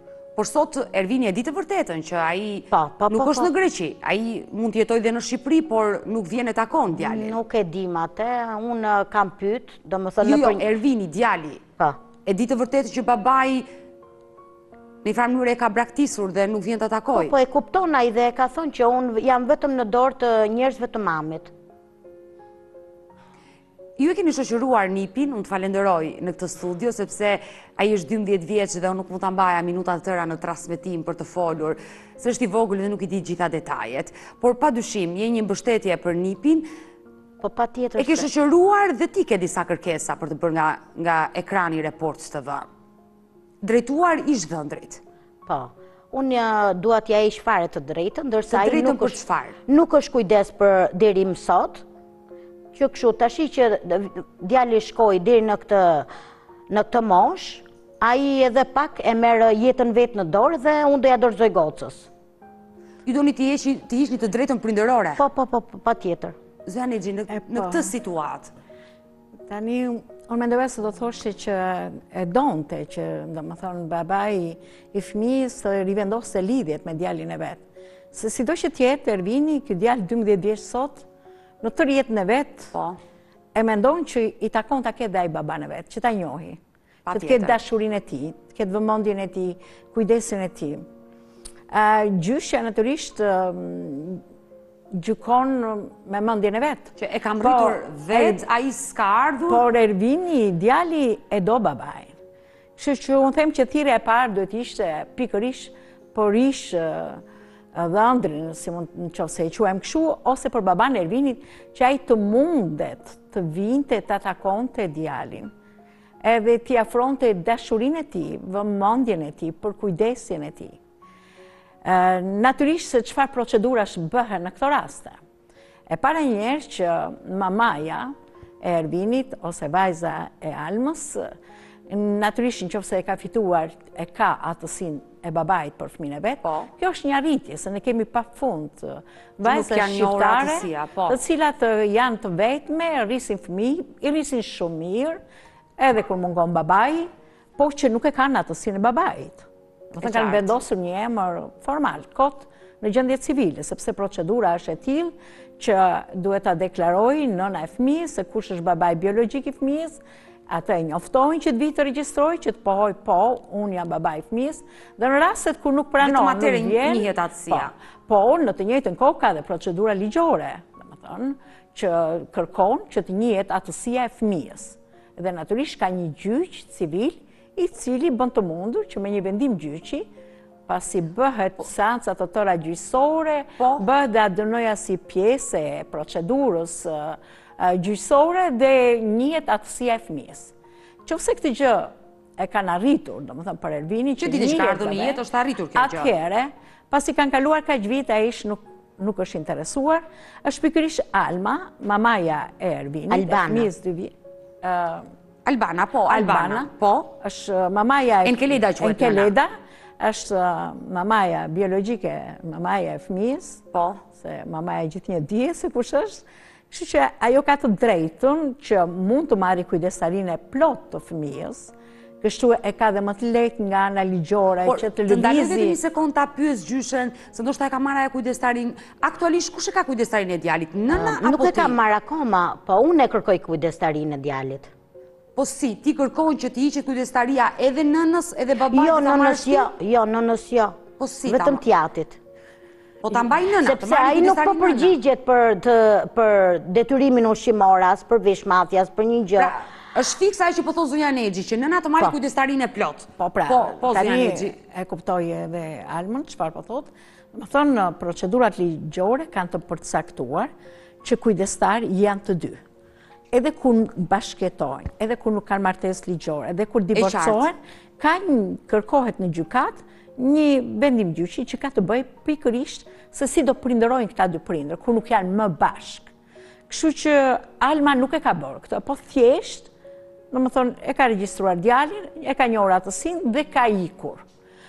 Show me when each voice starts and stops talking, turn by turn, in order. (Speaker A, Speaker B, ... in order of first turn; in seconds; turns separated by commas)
Speaker A: 0.4-7.4, Speaker B: 2.7-3.5, Speaker B: 6.9-10.6, Speaker A: 10.2-11.6, Speaker A: 12.2-13.7, Speaker A: 15.0-17.4, Speaker B: 17.1-21.5, Speaker A: 24.0-36.7, Speaker B: 37.4-38.3, Speaker A: 38.0-42.7, Speaker A: 43.6-45.0, Speaker B: 45.5-51.8, Speaker A: 48.5-49.5, Speaker B: 52.7-56.1, Speaker B: 56.7-62.1, Speaker A: 63.0-65.2, Speaker B: 65.2-66.3, Speaker A: 66.7-68.5, Speaker C: 67.3-67.9, Speaker C: 69.5-77.6, Speaker C: 78.1-81.0, Speaker C: 81.6-82.7, Speaker A: 82.7-83.0, Speaker C: 83.5-86.6, Speaker A: 87.0-87.6, Speaker C: 87.1-90.8, Speaker C: 91.7-94.2, Speaker C: 94.9-98.4, Speaker A: 97.0-99.6, Speaker C: 99.5-102.1, Speaker C: 102.8-107.2, Speaker C: 107.7-115.5, Speaker C: 116.2-120.8, Speaker C: 121.8-125.2, Speaker C: 125.9-131.3, Speaker C: 131.9-145.2, Speaker A: 136.4-136.7, Speaker A: 139.4-141.2, Speaker C: 145.8-180.1, Speaker A: 150.0-150.6, Speaker A: 166.0-167.7, Speaker C: 180.7-190.5, Speaker A: 183.6-183.8, Speaker C: 191.0-195.2, Speaker A: 194.2-196.1, Speaker C: 195.7-205.1, Speaker B: 203.1-203.7, Speaker A: 205.4-207.1, Speaker C: 206.1-225.8, Speaker A: 208.2-209.3, Speaker A: 213.7-214.0, Speaker A: 224.6-231.8, Speaker B: 230.9-234.7, Speaker A: 235.3-239.7, Speaker B: 238.7-242.2, Speaker A: 241.0-241.6, Speaker A: 243.0-245.0, Speaker B: 243.6-249.6, Speaker A: 249.4-254.6, Speaker C: 253.2-260.5, Speaker C: 261.0-262.6, Speaker C: 263.3-276.1, Speaker A: 266.9-267.5, Speaker C: 276.7-279.7, Speaker C: 280.3-284.2